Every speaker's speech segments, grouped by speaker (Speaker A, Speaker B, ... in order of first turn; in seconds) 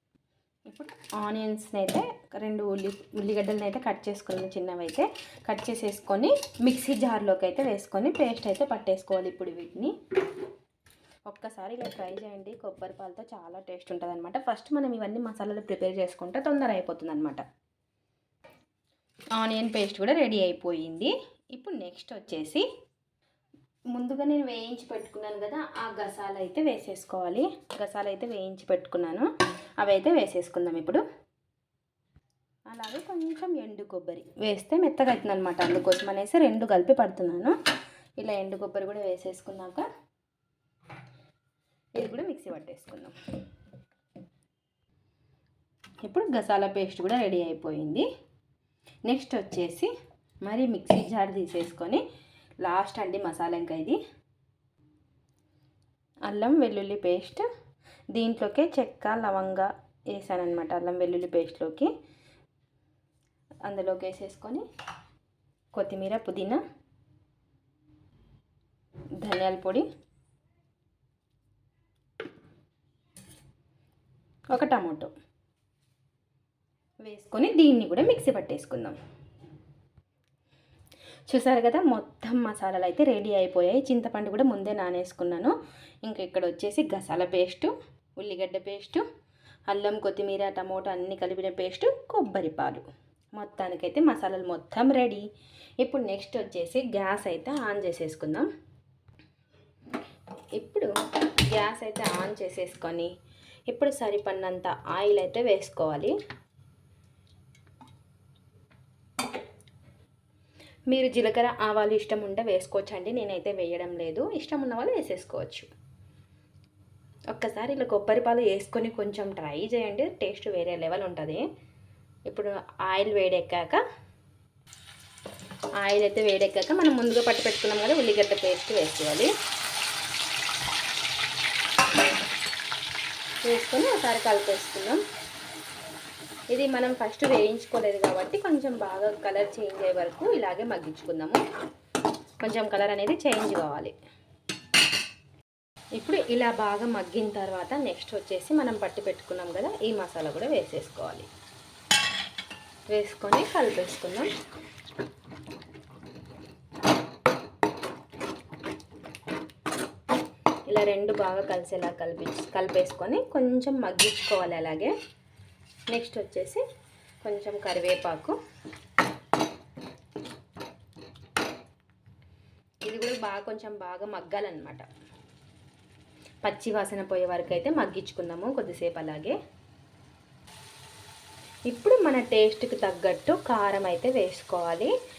Speaker A: 0.7-9.9, 11.3-17.4, 19.4-22.6, 23.9-29.3, 29.8-31.0, 32.7-37.6, 38.2-39.9, 42.0-43.1, 46.0-48.1, 49.1-49.9, 50.5-52.0, 52.6-54.0, 56.3-57.5, 58.1-61.9, 63.7-64.7, 65.7-66.6, 69.2-69.9, 74.5-75.1, 77.0-79.0, 81.3-85.5, 86.0-89.0, 89.7-92.8, 93.4-95.3, 95.8-98.5, 100.6-103.1, 103.7-106.1, 110.9-115.7, 117.3-121.5, 122.3-123.8, 125.8-129.3, 133.4-135.0, 136.5-141.4, 142.4-143.9, 146.0-151.3, 152.9-154.3, 160.7-164.9, 165.9-166.6, 167.2-168.4, 172.8-174.8, 176.4-179.4, 181.7-184.9